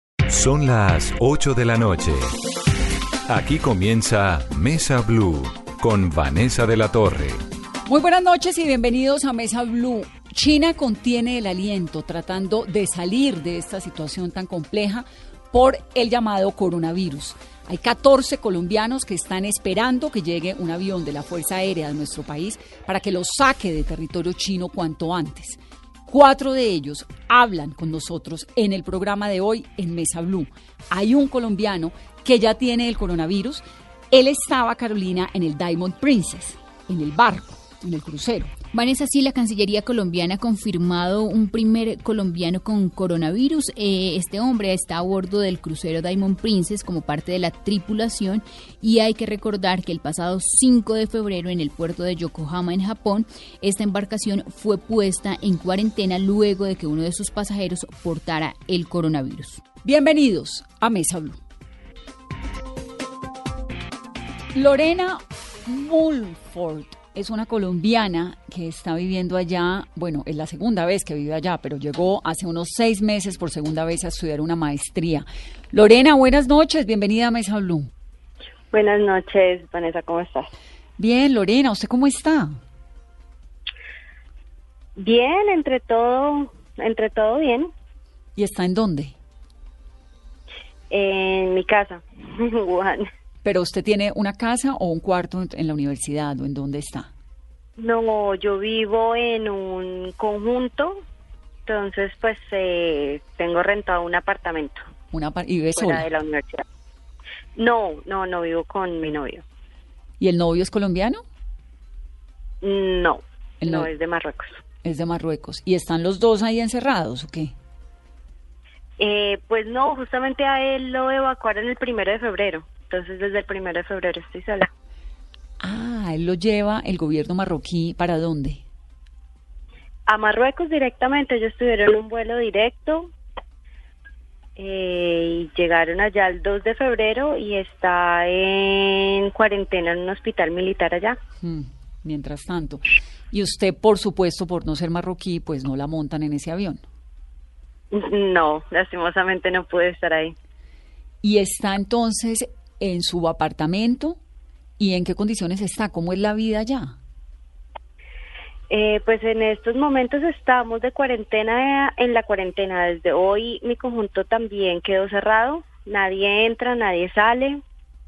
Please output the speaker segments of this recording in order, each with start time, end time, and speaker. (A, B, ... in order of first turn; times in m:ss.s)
0:00.3-0:02.3 A
0:03.3-0:07.4 A
0:07.9-0:38.6 B
0:38.7-0:59.6 C
0:59.8-1:01.4 B
1:04.5-1:17.9 B
1:18.7-1:20.5 D
1:21.0-1:22.6 B
1:25.0-1:27.7 D
1:28.4-1:29.2 B
1:30.9-1:33.1 D
1:33.4-1:37.1 B
1:37.8-1:41.0 D
1:41.7-1:44.8 D
1:45.1-1:46.1 B
1:45.7-1:46.6 D
1:47.6-1:49.4 D
1:50.2-1:51.2 B
1:52.6-1:54.6 D
1:53.6-1:53.9 B
1:54.8-1:57.6 B
1:59.0-2:04.7 D
2:05.6-2:08.6 B
2:10.1-2:13.1 D
2:14.6-2:21.2 D
2:21.4-2:26.8 B
2:27.9-2:30.4 D
2:31.2-2:34.2 B
2:34.8-2:37.0 B
2:38.7-2:47.6 D